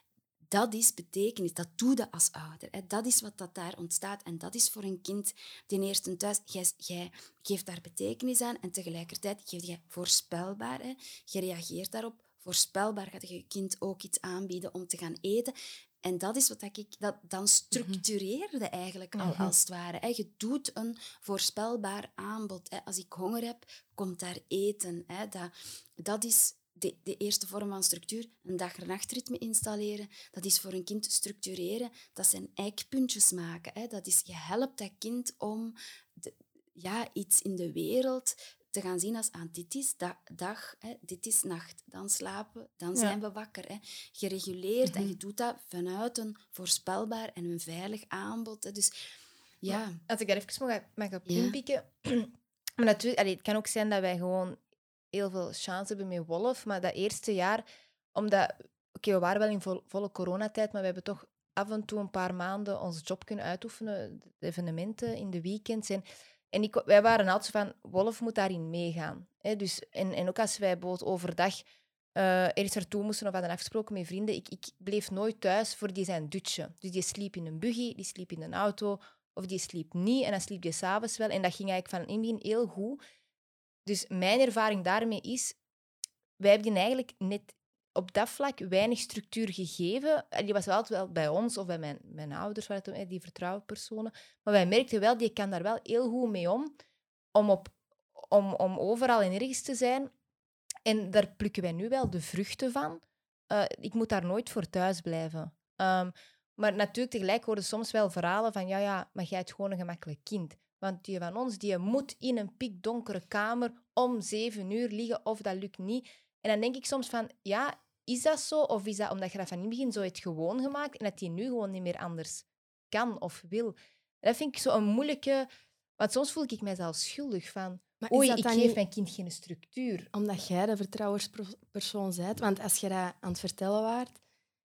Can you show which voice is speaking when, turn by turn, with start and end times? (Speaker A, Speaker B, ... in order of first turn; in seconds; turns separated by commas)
Speaker A: 0.5-48.9, Speaker B: 19.2-19.5, Speaker A: 49.6-50.0, Speaker B: 49.7-54.6, Speaker A: 51.3-51.6, Speaker B: 55.1-83.0, Speaker B: 83.8-85.6, Speaker B: 86.4-96.8, Speaker B: 97.3-100.1, Speaker B: 100.8-130.1, Speaker C: 128.0-128.8, Speaker C: 130.1-134.2